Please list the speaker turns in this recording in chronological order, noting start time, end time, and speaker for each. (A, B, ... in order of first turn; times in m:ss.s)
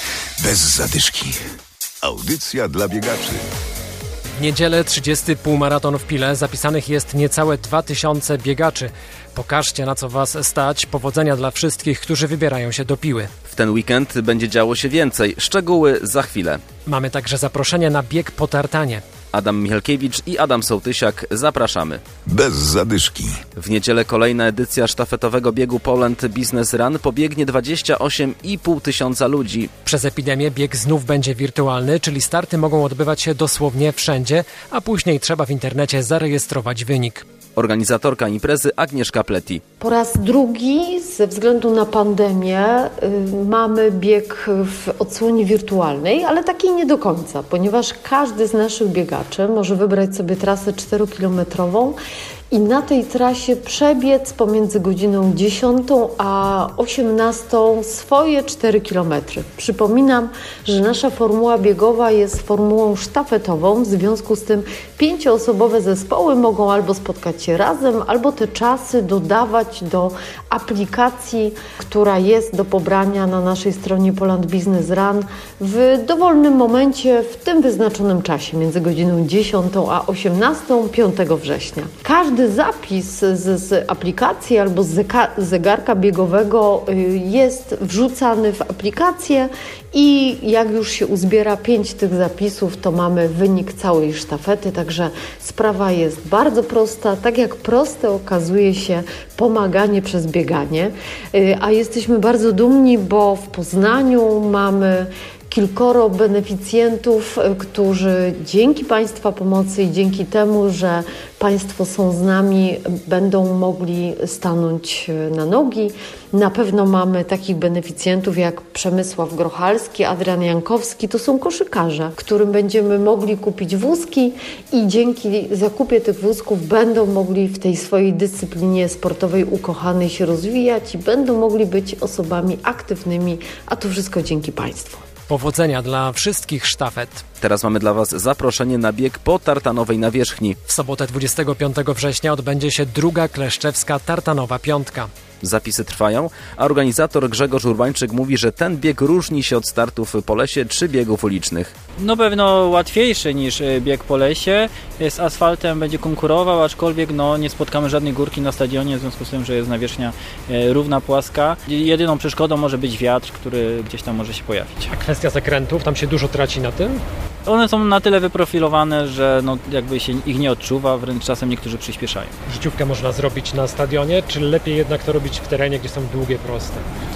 0:00.4-0:01.4 A
0:02.0-0:03.4 A
0:04.4-0:13.3 B
0:13.4-0:16.6 C
0:16.9-0:19.0 B
0:19.3-0:22.0 C
0:22.2-0:23.4 A
0:23.6-0:29.7 C
0:29.8-0:37.2 B
0:37.6-0:39.6 C
0:39.8-0:52.0 D
0:52.5-2:15.0 D
2:15.3-2:17.2 B
2:17.4-2:20.6 C
2:20.7-2:25.1 B
2:25.4-2:31.7 C
2:32.0-2:44.9 E
2:44.9-2:47.0 B
2:47.4-2:52.3 E
2:52.5-2:56.8 B